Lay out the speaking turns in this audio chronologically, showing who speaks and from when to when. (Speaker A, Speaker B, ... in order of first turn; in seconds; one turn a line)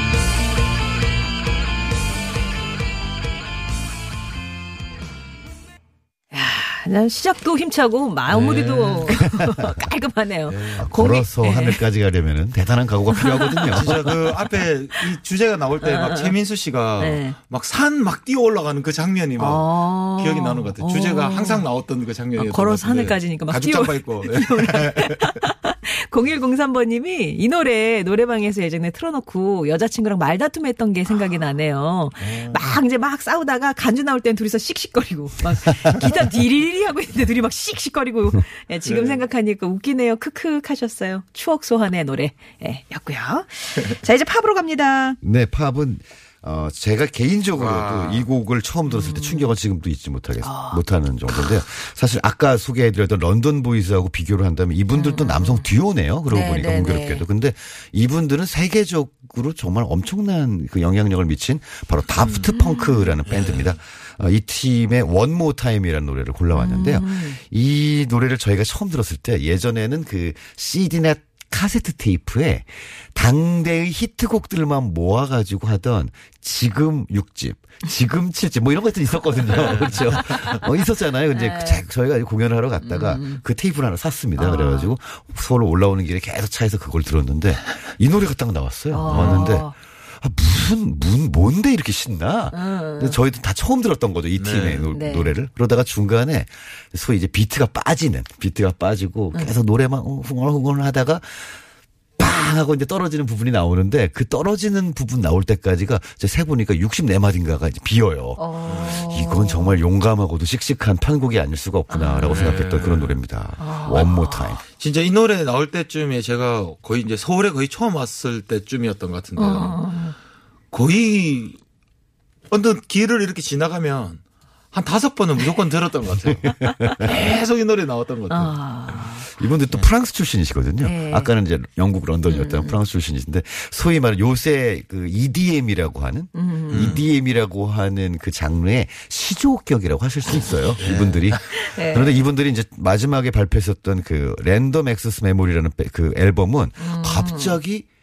Speaker A: 6.3-11.8
Speaker B: 8.3-9.2
Speaker C: 9.1-9.8
Speaker B: 10.5-10.9
Speaker C: 10.8-14.2
Speaker A: 13.1-14.0
Speaker B: 13.7-25.4
Speaker A: 15.8-16.4
Speaker A: 17.0-17.4
Speaker A: 19.4-21.6
Speaker A: 22.4-45.2
Speaker B: 32.2-32.6
Speaker B: 38.9-39.2
Speaker C: 45.2-101.6
Speaker B: 47.5-48.3
Speaker A: 48.9-49.5
Speaker A: 50.4-50.8
Speaker A: 54.9-55.7
Speaker A: 56.3-57.2
Speaker B: 63.3-63.8
Speaker A: 66.5-67.4
Speaker B: 79.5-80.5
Speaker A: 80.2-80.6
Speaker A: 81.3-81.8
Speaker A: 82.8-83.4
Speaker A: 84.4-84.9
Speaker A: 88.9-89.8
Speaker B: 89.1-89.5
Speaker A: 92.5-93.2
Speaker B: 94.4-94.9
Speaker A: 94.9-95.3
Speaker C: 102.2-114.6
Speaker A: 108.4-109.8
Speaker B: 108.7-108.9
Speaker A: 111.9-112.5
Speaker B: 112.2-113.2
Speaker A: 113.6-114.6
Speaker B: 114.8-119.8
Speaker A: 119.4-120.2
Speaker B: 120.7-121.6
Speaker B: 122.5-124.2
Speaker B: 124.7-128.6
Speaker A: 126.7-127.0
Speaker A: 128.3-129.3
Speaker C: 129.3-147.9
Speaker A: 130.8-131.3
Speaker A: 132.3-132.8
Speaker A: 136.3-137.0
Speaker B: 136.7-137.0
Speaker B: 140.8-141.4
Speaker A: 141.5-142.2
Speaker A: 146.8-147.6